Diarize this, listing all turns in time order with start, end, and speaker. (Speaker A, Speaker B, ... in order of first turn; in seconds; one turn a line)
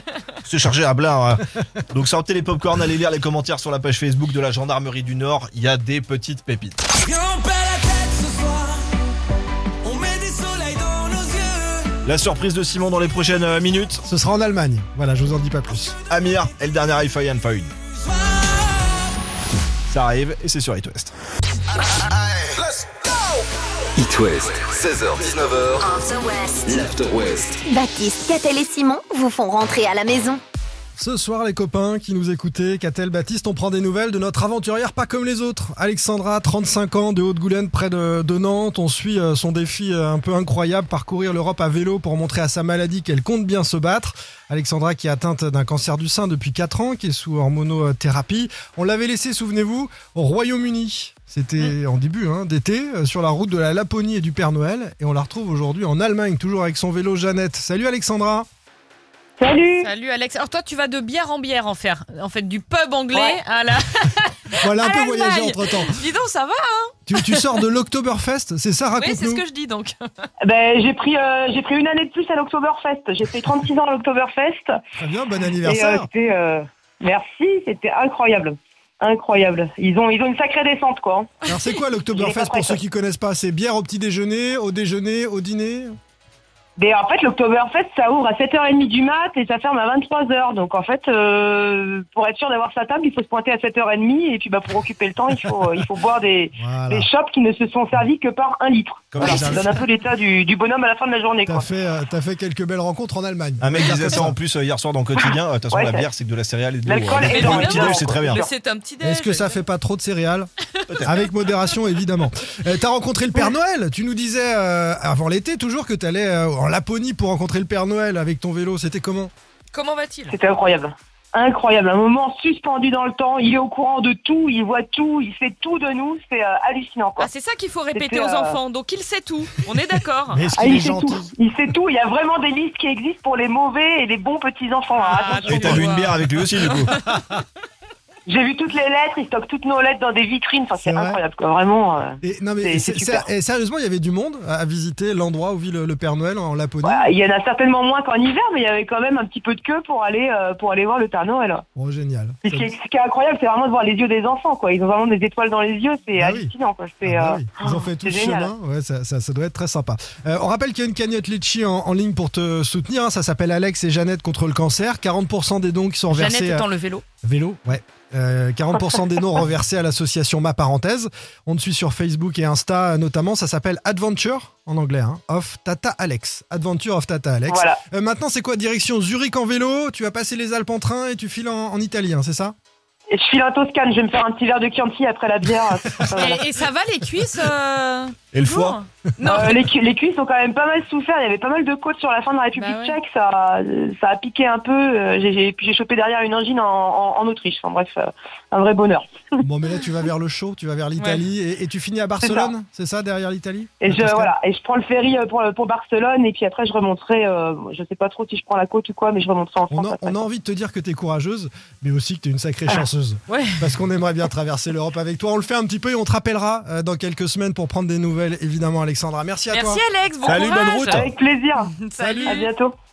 Speaker A: 0.4-6.8
Speaker B: 1.4-1.8
Speaker A: 12.0-14.0
Speaker B: 14.1-16.0
Speaker A: 16.1-17.8
Speaker A: 19.9-21.1
Speaker C: 24.0-25.9
Speaker D: 25.9-26.3
Speaker C: 26.6-27.6
Speaker D: 27.6-30.4
Speaker B: 31.0-58.5
Speaker E: 59.4-59.9
Speaker F: 59.8-67.5
Speaker E: 63.1-63.4
Speaker B: 64.6-66.0
Speaker B: 67.1-69.4
Speaker F: 69.0-70.3
Speaker E: 70.4-74.8
Speaker B: 75.0-76.1
Speaker E: 75.6-81.3
Speaker B: 81.5-86.0
Speaker E: 82.2-82.8
Speaker E: 86.8-101.7
Speaker B: 96.6-97.1
Speaker A: 99.1-99.6
Speaker B: 99.2-99.6
Speaker B: 101.5-104.4
Speaker A: 103.6-108.4
Speaker E: 105.2-106.1
Speaker E: 106.8-108.5
Speaker F: 107.2-109.6
Speaker B: 109.0-110.5
Speaker A: 110.9-111.1
Speaker B: 111.0-119.3
Speaker F: 119.7-120.4
Speaker E: 120.3-127.3
Speaker F: 127.2-130.5
Speaker E: 127.9-128.6
Speaker B: 130.3-131.3
Speaker E: 130.6-135.8
Speaker F: 135.0-137.0
Speaker A: 135.4-137.0
Speaker B: 137.1-137.4
Speaker E: 138.3-143.2
Speaker B: 140.8-141.2
Speaker B: 142.2-147.1
Speaker E: 146.8-151.6
Speaker B: 151.8-152.7
Speaker E: 152.4-158.5
Speaker B: 156.2-166.7
Speaker F: 166.1-167.0
Speaker B: 167.2-182.6
Speaker E: 177.5-177.8
Speaker E: 183.1-186.4
Speaker F: 186.1-189.6
Speaker A: 188.3-188.8
Speaker E: 189.3-199.4
Speaker F: 192.6-193.0
Speaker B: 199.4-204.3
Speaker F: 201.0-201.2
Speaker E: 202.2-202.5
Speaker E: 203.8-210.2
Speaker B: 209.7-219.8
Speaker F: 213.3-213.7
Speaker F: 219.5-221.0
Speaker A: 220.2-221.1
Speaker E: 220.9-221.7
Speaker F: 221.6-222.5
Speaker B: 222.0-222.5
Speaker E: 222.3-222.7